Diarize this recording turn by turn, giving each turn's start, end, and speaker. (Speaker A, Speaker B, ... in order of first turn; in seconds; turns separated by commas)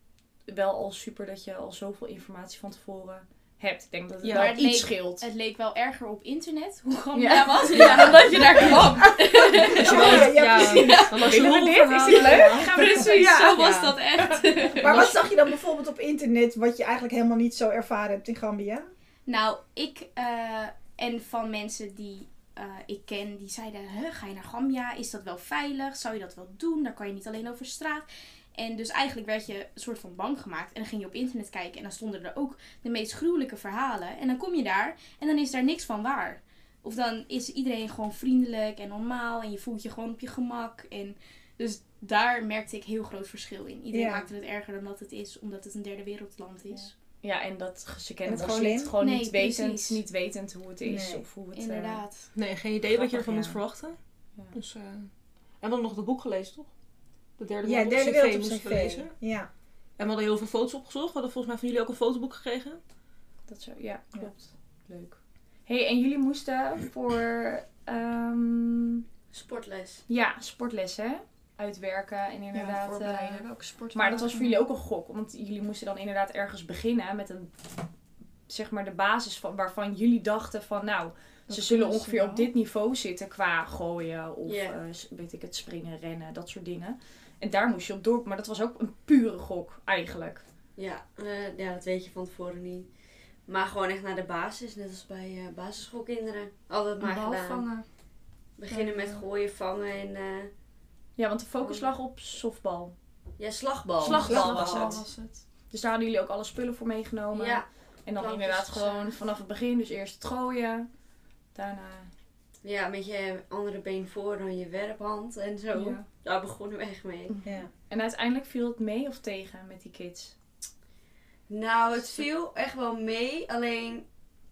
Speaker A: 0.5-5.2, Speaker B: 4.2-4.5, Speaker C: 4.3-11.2, Speaker A: 7.1-7.9, Speaker D: 7.8-9.1, Speaker B: 9.6-14.0, Speaker E: 9.7-11.2, Speaker A: 11.1-13.6, Speaker C: 12.1-15.2, Speaker E: 12.2-12.9, Speaker E: 14.8-18.9, Speaker C: 19.2-46.9, Speaker E: 43.9-44.3, Speaker A: 47.2-52.0, Speaker E: 48.2-48.9, Speaker C: 49.0-50.0, Speaker E: 50.8-51.3, Speaker C: 51.5-52.3, Speaker B: 52.3-54.0, Speaker A: 52.9-53.6, Speaker B: 54.5-55.1, Speaker B: 55.6-56.7, Speaker B: 57.4-59.1, Speaker E: 57.6-59.5, Speaker B: 60.0-62.8, Speaker A: 63.5-69.0, Speaker F: 69.3-70.0, Speaker A: 70.1-77.5, Speaker D: 72.5-74.7, Speaker A: 78.5-90.4, Speaker D: 81.5-82.5, Speaker F: 84.4-84.8, Speaker F: 90.8-92.9, Speaker F: 93.5-97.7, Speaker D: 97.0-97.8, Speaker F: 98.6-100.5, Speaker D: 98.7-99.2, Speaker A: 101.2-102.9, Speaker F: 101.6-101.9, Speaker F: 103.4-104.9, Speaker A: 104.0-105.0, Speaker D: 104.0-105.4, Speaker E: 104.3-105.0, Speaker A: 105.7-110.9, Speaker F: 107.3-109.1, Speaker A: 111.5-112.1, Speaker F: 112.6-117.3, Speaker A: 115.7-116.0, Speaker E: 117.4-117.7, Speaker A: 117.9-120.3, Speaker F: 121.5-124.0, Speaker A: 122.0-122.2